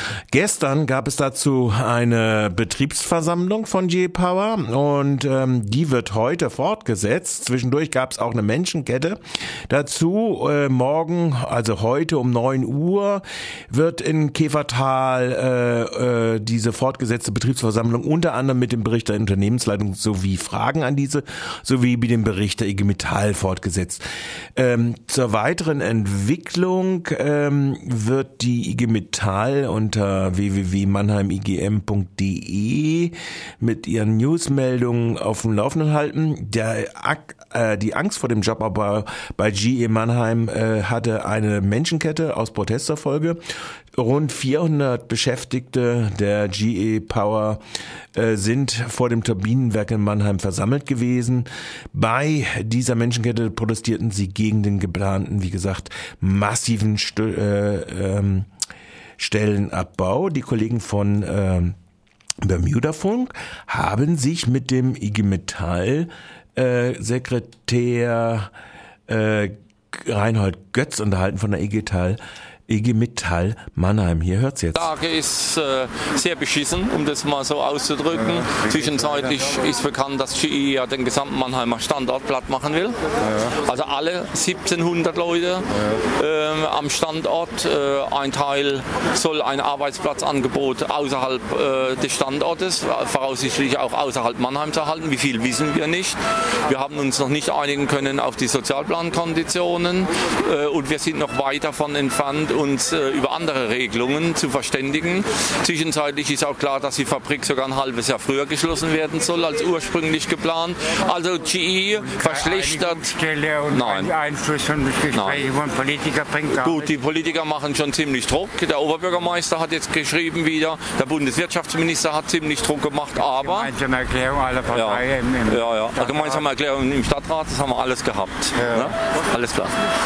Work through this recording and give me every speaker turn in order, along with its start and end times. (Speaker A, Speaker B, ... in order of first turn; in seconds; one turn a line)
Speaker A: 0.3-24.0
Speaker A: 24.6-43.4
Speaker A: 43.9-47.6
Speaker A: 48.1-58.5
Speaker A: 59.2-61.8
Speaker A: 62.4-68.5
Speaker A: 69.1-74.9
Speaker B: 74.7-113.2
Speaker C: 112.0-116.9
Speaker B: 113.7-114.1
Speaker B: 115.1-115.4
Speaker B: 116.5-123.7
Speaker C: 123.2-126.4
Speaker B: 124.7-129.8
Speaker C: 128.6-128.9